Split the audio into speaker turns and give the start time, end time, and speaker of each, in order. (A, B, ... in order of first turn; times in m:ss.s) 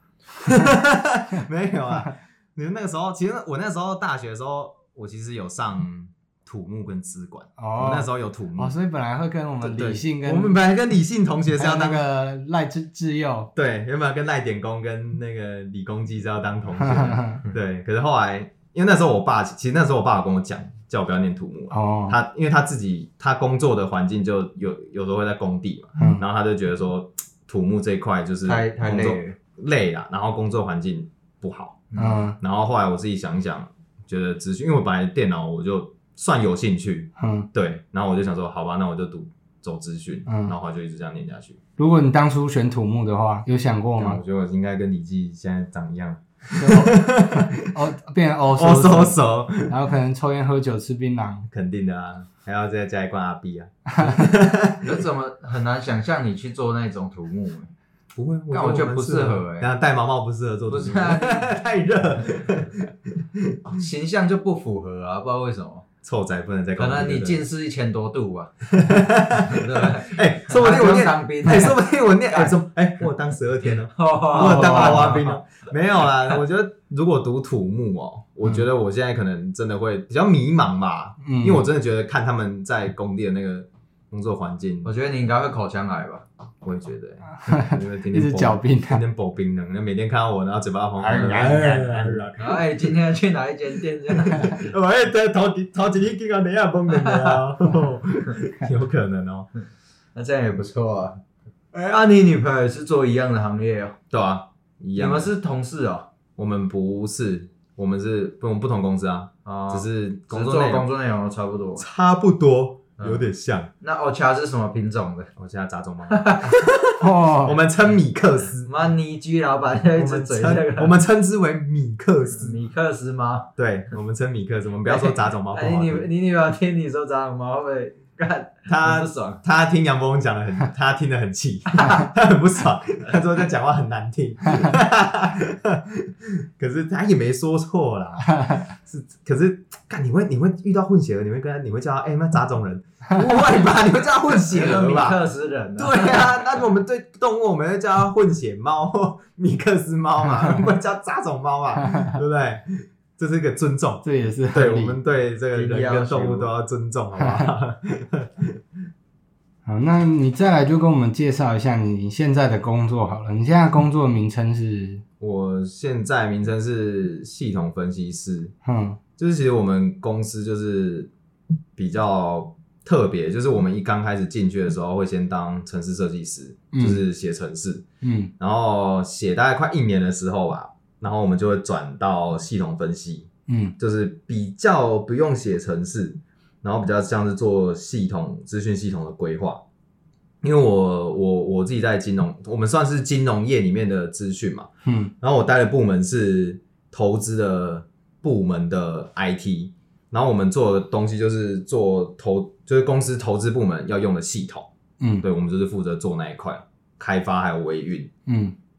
0:00.4-0:08.7 A
0:07.6-0:10.6 B
0:09.6-0:12.0 A
0:11.5-0:13.5 B
0:13.6-0:41.6 A
0:16.8-0:17.4 B
0:21.7-0:22.2 B
0:26.0-0:26.2 B
0:28.4-0:29.4 C
0:31.9-0:32.2 C
0:32.0-0:32.4 B
0:37.2-0:37.5 B
0:40.3-0:40.5 B
0:41.8-0:44.2 B
0:44.0-0:47.7 A
0:46.6-0:51.5 B
0:48.6-0:49.7 A
0:51.5-0:55.0 A
0:53.9-0:54.3 B
0:54.8-0:57.7 C
0:58.1-1:03.8 A
0:58.5-0:59.7 C
1:00.7-1:01.5 C
1:03.7-1:05.8 C
1:06.0-1:07.4 A
1:06.8-1:12.6 C
1:08.7-1:24.9 A
1:13.6-1:15.4 C
1:14.3-1:15.2 B
1:21.2-1:21.6 B
1:24.8-1:26.2 C
1:26.6-1:33.0 A
1:27.4-1:29.0 B
1:31.0-1:32.2 B
1:31.1-1:31.7 C
1:32.4-1:34.7 C
1:34.1-1:39.5 A
1:36.9-1:37.4 C
1:40.1-1:41.2 C
1:41.7-1:44.0 C
1:44.1-1:45.3 A
1:45.0-1:46.1 C
1:46.4-1:50.9 A
1:49.4-1:51.8 C
1:51.8-1:53.7 A
1:53.0-1:53.2 C
1:53.8-1:55.3 C
1:55.4-1:58.7 A
1:56.1-1:56.6 C
1:57.0-1:57.6 B
1:58.6-2:01.0 C
1:59.9-2:02.6 A
2:02.3-2:03.5 C
2:03.6-2:06.1 A
2:04.8-2:09.4 C
2:08.7-2:25.2 A
2:23.3-2:23.6 C
2:24.3-2:26.5 C
2:25.8-2:38.6 A
2:31.8-2:32.2 B
2:34.0-2:35.0 B
2:35.5-2:36.5 C
2:37.2-2:37.5 B
2:39.6-2:45.0 B
2:45.2-2:48.5 A
2:48.6-2:49.0 B
2:49.2-2:51.1 A
2:51.8-2:57.8 A
2:56.7-2:57.0 B
2:58.0-2:58.3 B
2:58.4-3:03.3 A
3:03.5-3:03.7 B
3:03.8-3:09.6 A
3:10.4-3:14.7 A
3:14.8-3:15.1 B
3:15.2-3:24.7 A
3:25.2-3:28.1 A
3:28.3-3:28.6 B